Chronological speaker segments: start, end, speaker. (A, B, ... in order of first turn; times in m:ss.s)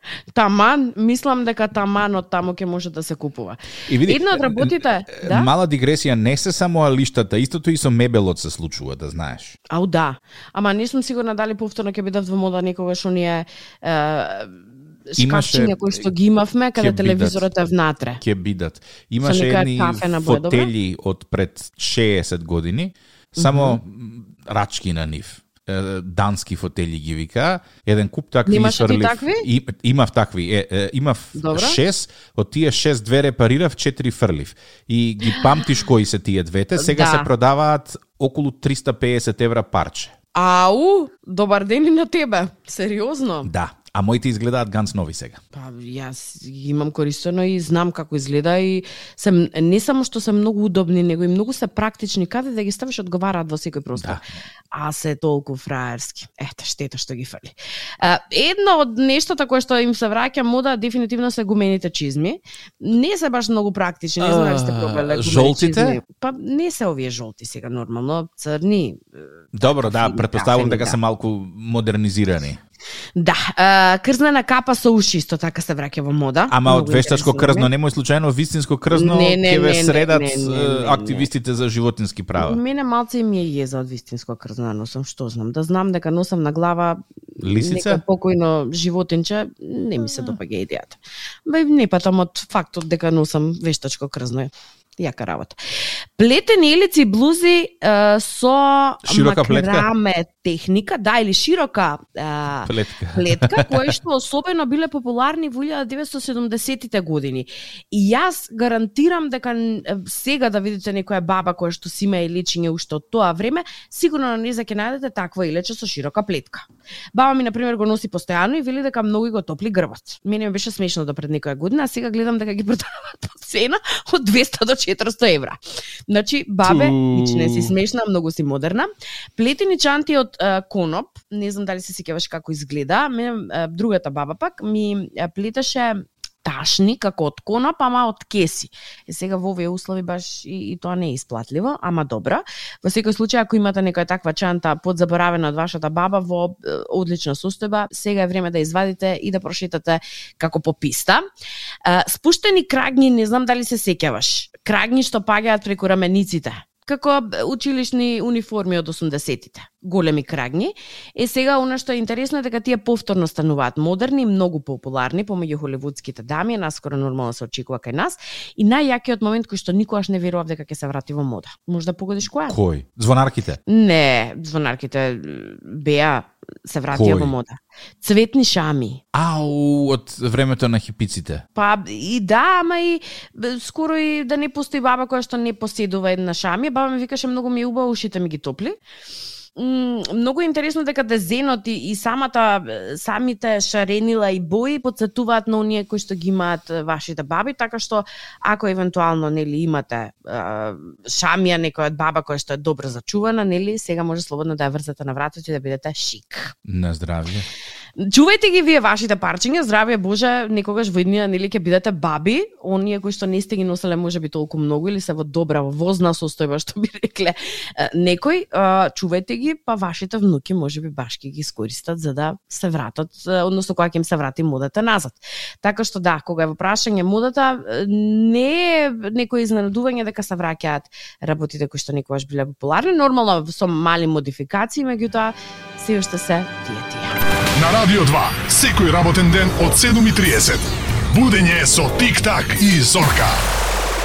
0:00.3-0:05.5 A
0:03.9-0:09.6 B
0:09.7-0:18.2 A
0:15.2-0:16.1 B
0:16.8-0:17.5 B
0:18.2-0:40.1 B
0:19.2-0:20.7 A
0:23.4-0:23.8 A
0:28.5-0:29.5 A
0:31.4-0:31.8 A
0:36.8-0:37.3 A
0:40.3-0:43.5 A
0:43.4-0:45.4 B
0:45.5-0:54.2 A
0:54.0-0:54.2 B
0:54.7-1:11.0 A
1:04.2-1:06.0 B
1:09.5-1:12.6 B
1:13.2-1:17.7 A
1:16.5-1:22.6 B
1:18.9-1:21.3 A
1:22.4-1:35.6 A
1:27.4-1:28.0 B
1:36.2-2:31.2 A
1:39.0-1:39.9 B
1:42.6-1:43.9 B
2:06.6-2:07.7 B
2:31.8-2:52.6 A
2:52.5-2:53.6 B
2:53.7-2:59.0 A
2:56.9-2:57.3 B
2:59.1-3:01.4 B
3:01.6-3:08.8 A
3:09.6-3:26.5 A
3:26.6-3:27.5 B
3:28.0-3:57.2 A
3:57.6-4:03.4 C